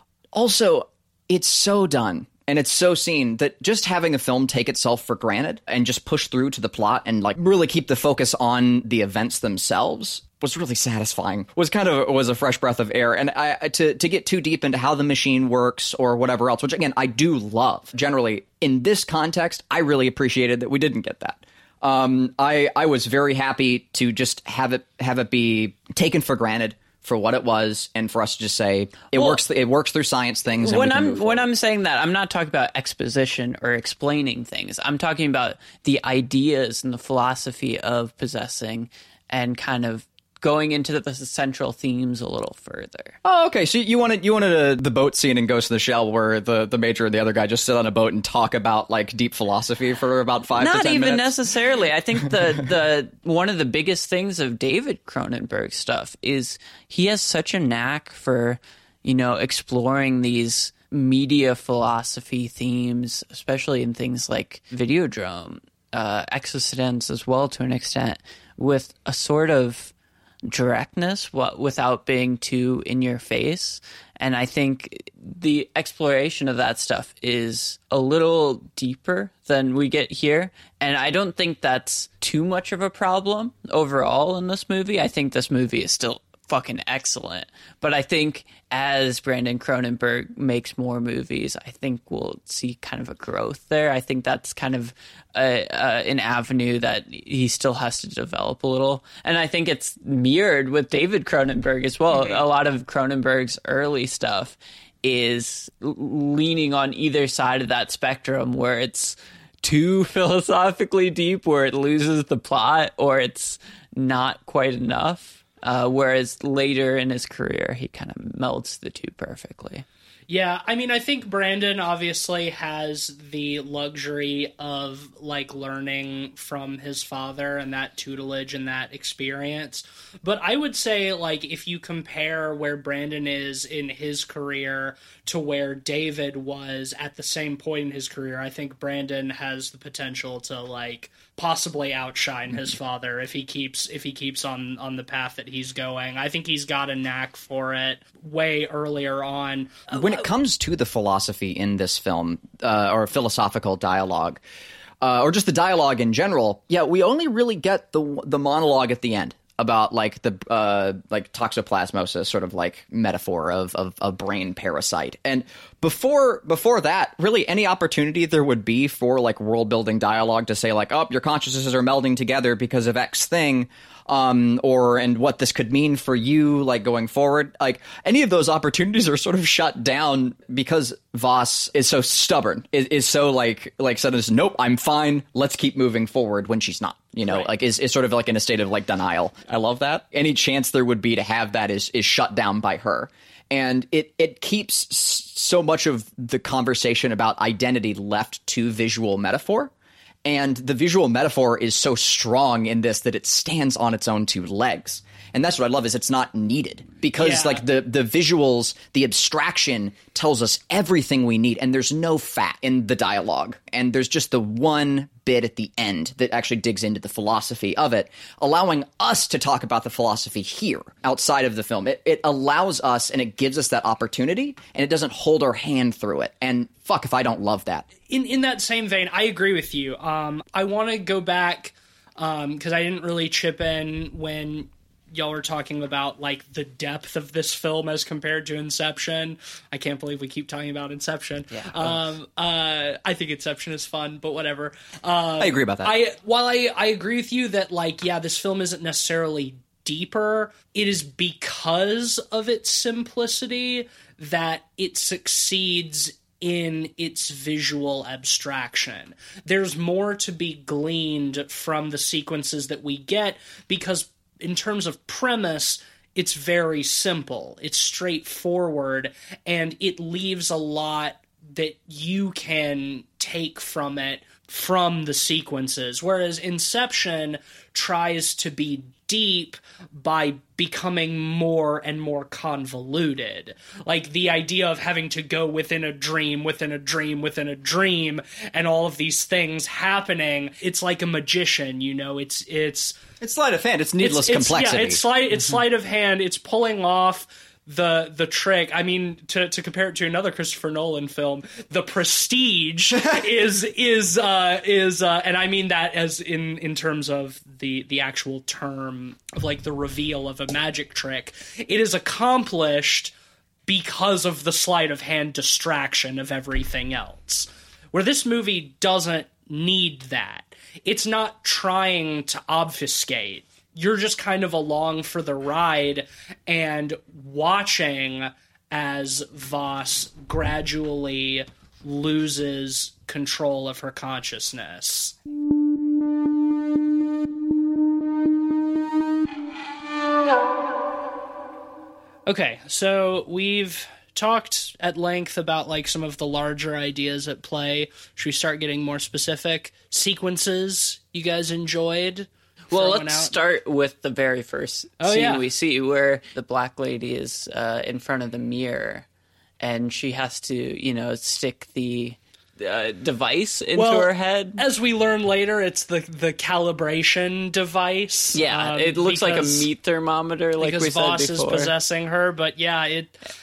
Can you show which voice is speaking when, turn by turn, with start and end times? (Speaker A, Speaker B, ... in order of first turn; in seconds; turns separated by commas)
Speaker A: 0.3-31.5, Speaker B: 29.1-29.4, Speaker B: 30.6-43.1, Speaker A: 43.2-51.3, Speaker B: 50.5-69.9, Speaker B: 70.5-119.8, Speaker C: 102.1-102.4, Speaker C: 120.3-150.2, Speaker A: 149.9-154.4, Speaker A: 155.0-199.7, Speaker A: 200.2-227.8, Speaker C: 207.2-207.6, Speaker C: 228.1-293.0, Speaker B: 241.5-241.9, Speaker A: 245.4-245.9, Speaker A: 293.2-295.0, Speaker C: 294.0-313.1, Speaker C: 313.7-335.1, Speaker C: 342.2-353.4, Speaker B: 352.7-359.1, Speaker C: 355.0-355.4, Speaker B: 359.6-364.6, Speaker C: 363.8-369.7, Speaker B: 368.3-371.7, Speaker C: 370.6-373.1